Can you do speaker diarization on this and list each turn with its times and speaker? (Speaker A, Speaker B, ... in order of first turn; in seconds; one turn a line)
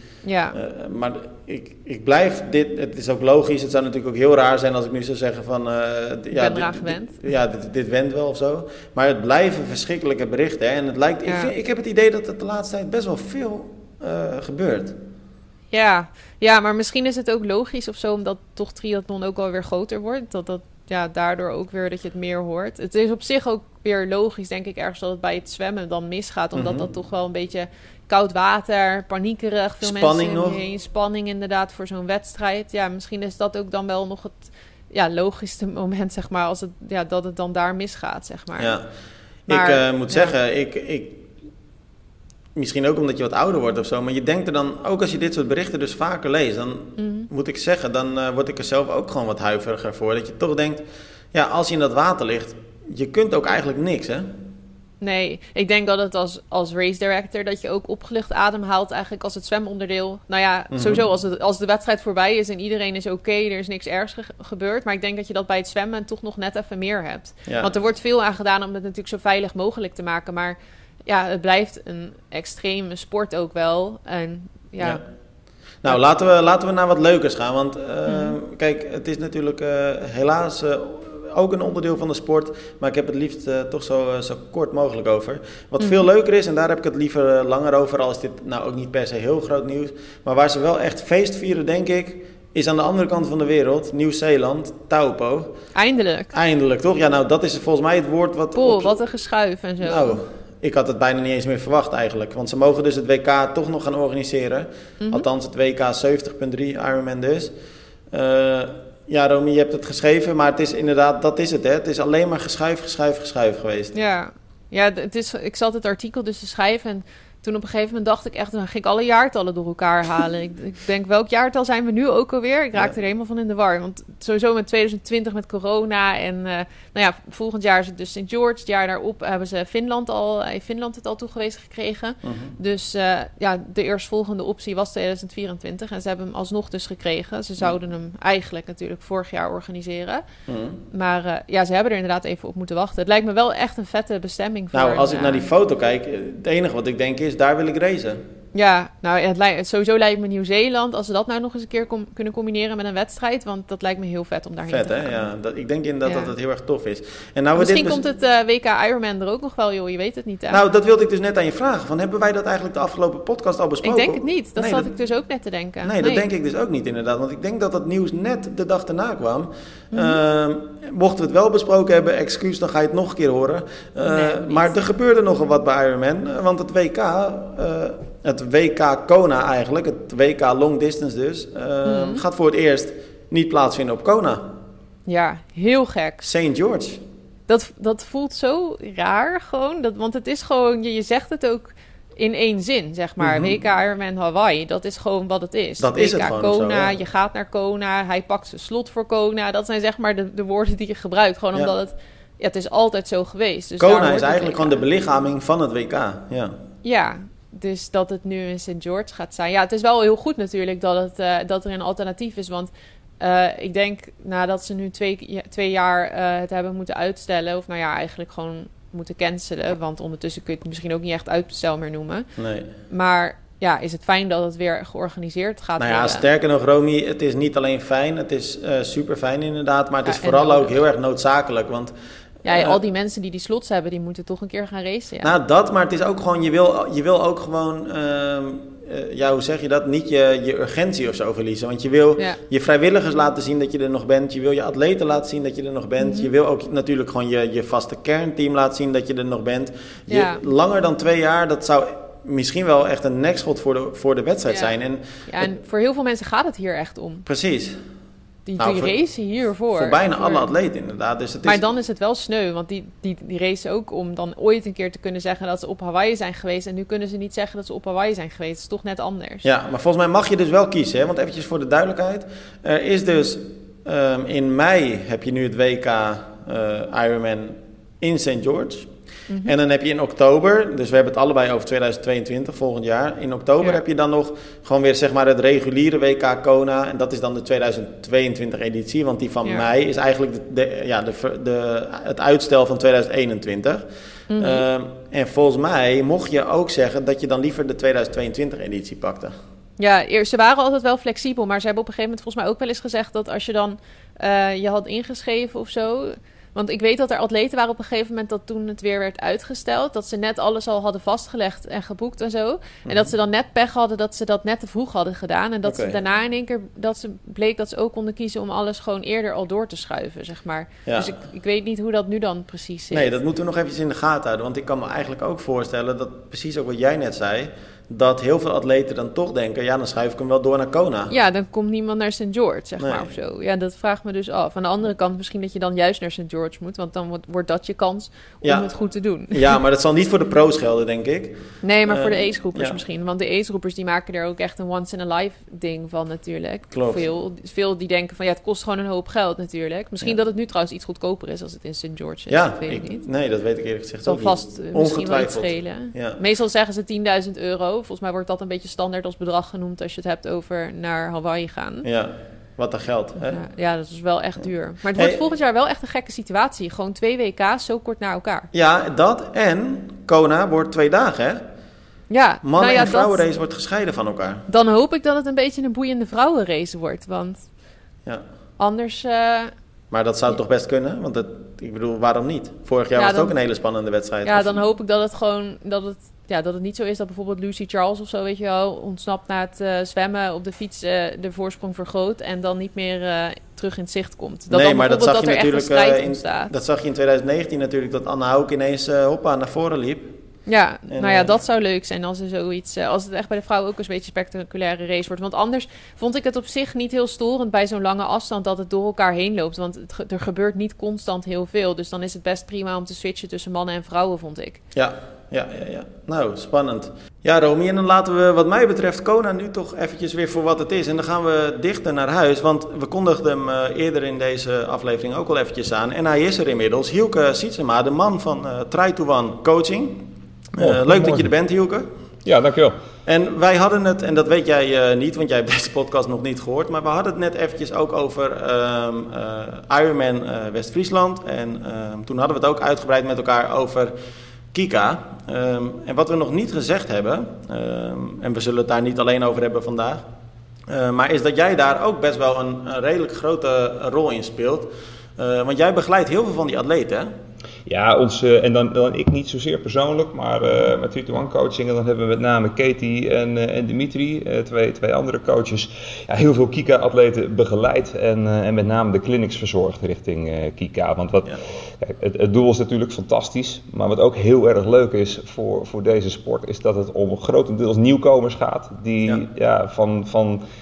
Speaker A: 0.2-0.6
Speaker B: 0.5-15.0
Speaker A: 6.3-7.2
Speaker A: 11.3-11.5
Speaker A: 15.7-38.8
Speaker B: 26.5-26.9
Speaker B: 29.8-30.6
Speaker B: 38.6-38.9
Speaker B: 39.5-41.3
Speaker A: 39.5-40.3
Speaker B: 42.5-50.8
Speaker A: 47.0-47.3
Speaker B: 51.3-54.3
Speaker A: 55.0-75.0
Speaker B: 60.7-61.0
Speaker B: 67.5-67.7
Speaker B: 75.8-95.5
Speaker A: 78.1-78.4
Speaker A: 85.8-86.1
Speaker A: 95.8-96.3
Speaker B: 96.3-98.9
Speaker A: 98.5-100.2
Speaker B: 99.8-107.5
Speaker A: 105.0-105.3
Speaker B: 108.1-114.0
Speaker A: 113.9-140.2
Speaker B: 132.2-132.6
Speaker B: 140.5-140.8
Speaker A: 140.9-145.5
Speaker B: 144.7-148.2
Speaker A: 148.5-155.2
Speaker B: 154.7-158.0
Speaker A: 156.1-156.3
Speaker A: 157.6-160.6
Speaker B: 160.5-164.9
Speaker A: 163.8-166.3
Speaker B: 165.8-184.5
Speaker A: 169.9-170.2
Speaker A: 174.1-174.7
Speaker A: 181.8-182.2
Speaker A: 185.1-186.2
Speaker B: 186.2-187.0
Speaker A: 187.5-204.8
Speaker B: 193.2-193.6
Speaker B: 195.8-196.9
Speaker B: 203.8-206.5
Speaker A: 206.8-222.3
Speaker B: 222.4-222.7
Speaker A: 222.9-226.3
Speaker B: 225.8-231.9
Speaker A: 230.1-230.8
Speaker A: 232.4-235.3
Speaker B: 232.5-232.8
Speaker B: 235.2-255.5
Speaker A: 246.0-246.3
Speaker A: 250.1-250.4
Speaker A: 255.3-257.3
Speaker B: 257.3-257.8
Speaker A: 258.5-260.5
Speaker B: 258.6-258.9
Speaker B: 259.7-261.6
Speaker A: 261.4-269.5
Speaker B: 269.4-278.9
Speaker B: 279.4-293.9
Speaker A: 294.3-294.6
Speaker B: 294.4-299.3
Speaker A: 299.8-323.1
Speaker B: 312.9-313.1
Speaker B: 315.6-316.0
Speaker B: 320.9-321.1
Speaker B: 322.9-331.1
Speaker A: 331.1-339.4
Speaker B: 332.8-333.1
Speaker B: 338.4-338.7
Speaker B: 339.3-342.8
Speaker A: 341.6-353.0
Speaker B: 346.7-347.0
Speaker B: 352.3-356.2
Speaker A: 354.1-361.9
Speaker B: 361.8-363.4
Speaker A: 363.3-368.5
Speaker B: 365.0-365.2
Speaker B: 368.5-371.4
Speaker A: 372.1-373.2
Speaker B: 372.4-374.5
Speaker A: 374.5-377.5
Speaker A: 378.6-379.5
Speaker B: 379.9-384.6
Speaker A: 383.0-383.3
Speaker A: 384.2-396.5
Speaker B: 394.5-400.1
Speaker A: 400.5-414.6
Speaker B: 400.9-401.4
Speaker B: 414.7-431.9
Speaker C: 430.6-431.3
Speaker C: 432.2-432.8
Speaker B: 433.1-443.9
Speaker B: 444.5-450.0
Speaker B: 450.7-457.1
Speaker C: 457.7-480.4